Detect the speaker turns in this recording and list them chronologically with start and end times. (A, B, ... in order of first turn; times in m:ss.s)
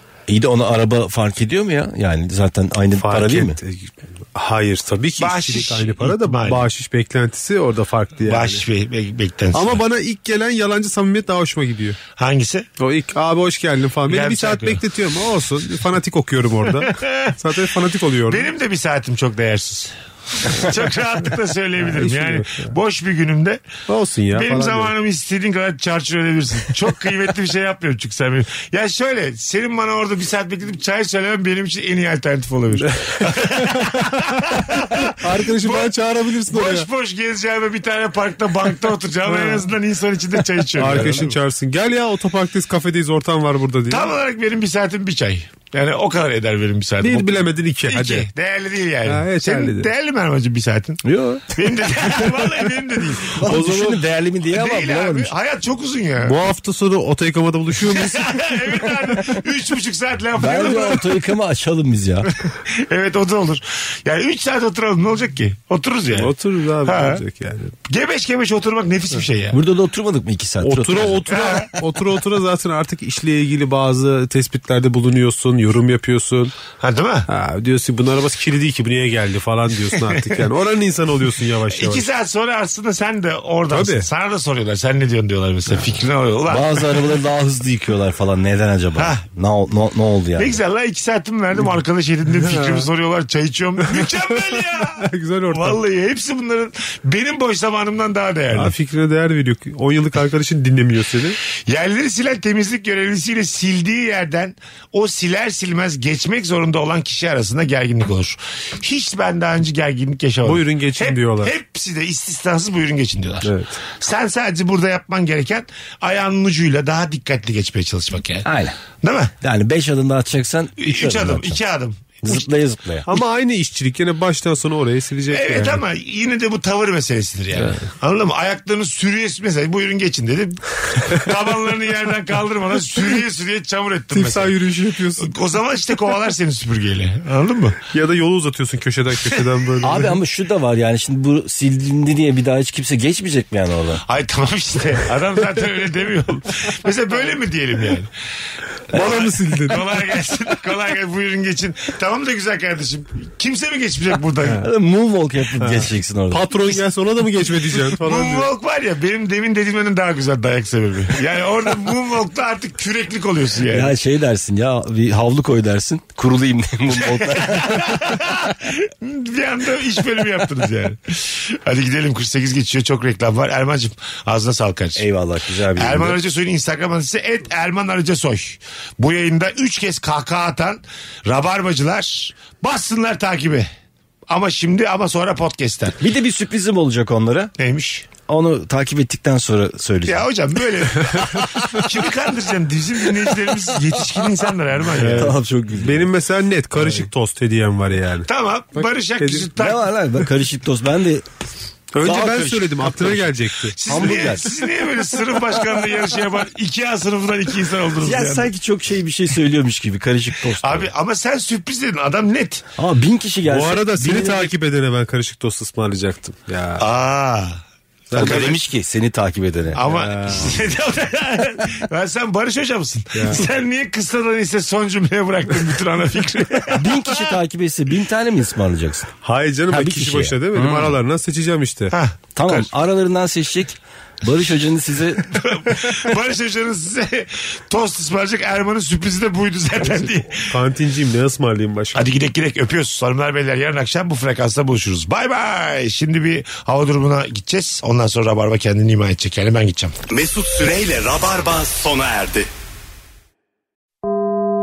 0:00.3-0:03.6 A
0:03.0-0:08.6 B
0:05.2-0:06.6 C
0:08.2-0:09.8 C
0:09.5-0:12.0 B
0:12.2-0:12.7 C
0:12.8-0:18.5 B
0:14.1-0:14.8 C
0:16.8-0:17.3 C
0:18.3-0:23.6 C
0:21.8-0:22.7 B
0:23.9-0:24.9 B
0:24.3-0:35.9 C
0:32.7-0:36.9 B
0:36.4-0:41.4 C
0:39.2-0:39.7 B
0:40.7-0:44.1 B
0:43.9-0:53.7 C
0:47.0-0:48.3 B
0:49.0-0:49.9 B
0:51.0-0:52.4 A
0:53.4-0:55.3 A
0:53.4-0:54.0 B
0:54.5-0:56.4 C
0:56.2-0:58.5 B
0:57.8-1:01.1 C
1:00.4-1:02.3 A
1:02.4-1:06.3 C
1:06.1-1:07.7 B
1:06.8-1:07.2 C
1:07.9-1:09.6 C
1:09.5-1:11.4 A
1:10.6-1:16.6 B
1:11.4-1:11.7 C
1:16.8-1:17.3 C
1:17.3-1:22.1 B
1:21.7-1:26.8 C
1:23.7-1:24.1 B
1:26.5-1:30.6 A
1:29.0-1:29.2 C
1:30.4-1:38.7 C
1:32.4-1:32.9 B
1:33.9-1:35.8 B
1:38.5-1:41.4 B
1:41.6-1:59.3 C
1:50.4-1:51.5 B
1:53.4-1:53.8 B
1:58.4-1:58.8 A
1:59.4-2:01.6 A
2:00.8-2:02.4 C
2:02.2-2:03.1 A
2:03.0-2:05.8 B
2:05.3-2:14.6 C
2:14.1-2:15.3 B
2:15.2-2:17.8 C
2:17.9-2:20.2 B
2:19.8-2:24.0 A
2:24.0-2:28.1 C
2:28.9-2:30.0 B
2:28.9-2:34.6 C
2:34.6-2:36.8 A
2:35.6-2:38.5 B
2:37.8-2:43.9 C
2:43.7-2:48.2 A
2:47.1-2:55.0 C
2:55.0-2:56.2 A
2:55.8-3:03.7 C
3:04.3-3:06.0 C
3:06.0-3:07.5 A
3:07.6-3:08.1 C
3:08.2-3:10.3 A
3:10.0-3:15.3 C
3:15.0-3:19.5 B
3:15.1-3:16.1 A
3:18.3-3:19.8 C
3:19.6-3:21.2 A
3:21.9-3:24.4 B
3:22.0-3:23.2 A
3:23.8-3:28.5 C
3:23.8-3:24.7 A
3:28.0-3:30.9 A
3:30.6-3:32.6 C
3:32.8-3:34.5 A
3:33.4-3:36.8 B
3:36.8-3:37.6 C
3:38.1-3:38.5 B
3:38.1-3:38.5 C
3:38.1-3:39.8 A
3:39.7-3:47.2 C
3:39.8-3:40.6 B
3:43.1-3:43.4 B
3:46.7-3:49.1 A
3:49.2-3:51.9 B
3:49.7-3:51.0 A
3:51.9-3:52.2 C
3:52.3-3:55.3 A
3:55.3-4:00.5 C
4:00.4-4:02.1 B
4:01.9-4:09.9 C
4:10.1-4:12.5 D